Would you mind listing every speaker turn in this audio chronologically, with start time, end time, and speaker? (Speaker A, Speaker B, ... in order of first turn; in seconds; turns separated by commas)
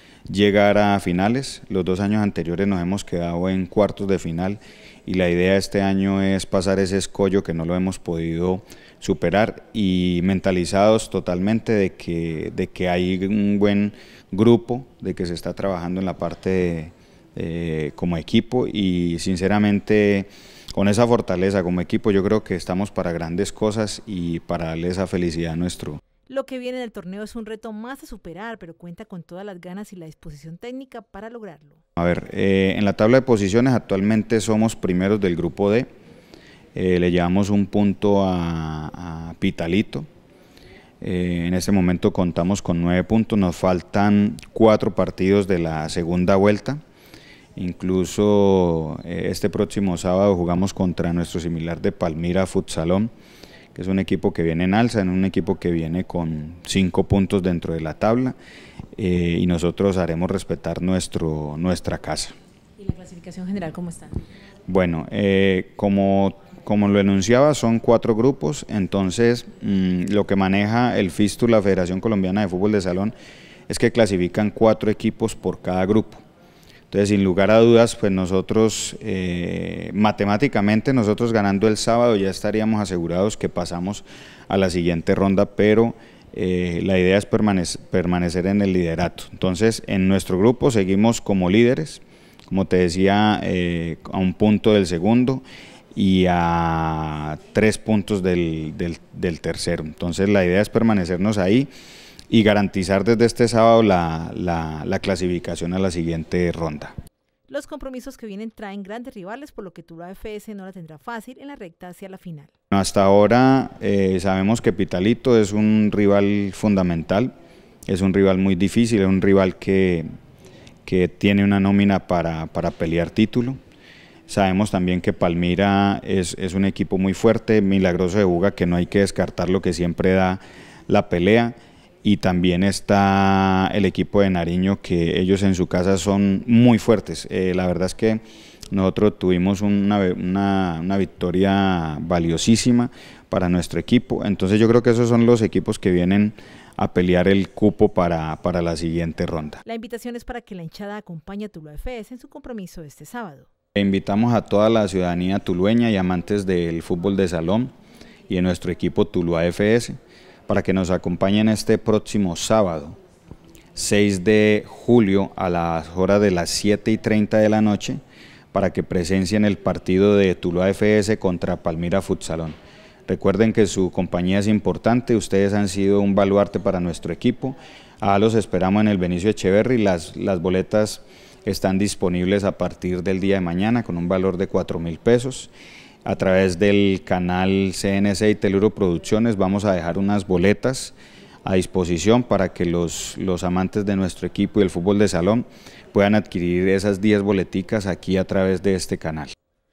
Speaker A: 0.3-26.0, Speaker B: 26.3-31.8, Speaker A: 32.0-35.9, Speaker A: 36.8-40.1, Speaker A: 41.0-46.8, Speaker A: 47.6-53.1, Speaker A: 53.7-58.4, Speaker A: 59.0-62.4, Speaker B: 62.8-64.2, Speaker A: 64.7-73.2, Speaker A: 73.7-76.2, Speaker A: 76.9-95.4, Speaker A: 96.0-101.7, Speaker A: 102.3-106.9, Speaker B: 107.5-112.5, Speaker A: 112.7-117.3, Speaker A: 117.9-120.1, Speaker A: 120.9-123.6, Speaker A: 124.3-149.6, Speaker B: 149.7-153.5, Speaker A: 153.8-157.7, Speaker A: 158.3-159.9, Speaker A: 160.5-163.0, Speaker A: 163.8-168.0, Speaker A: 168.5-185.5, Speaker A: 186.1-199.3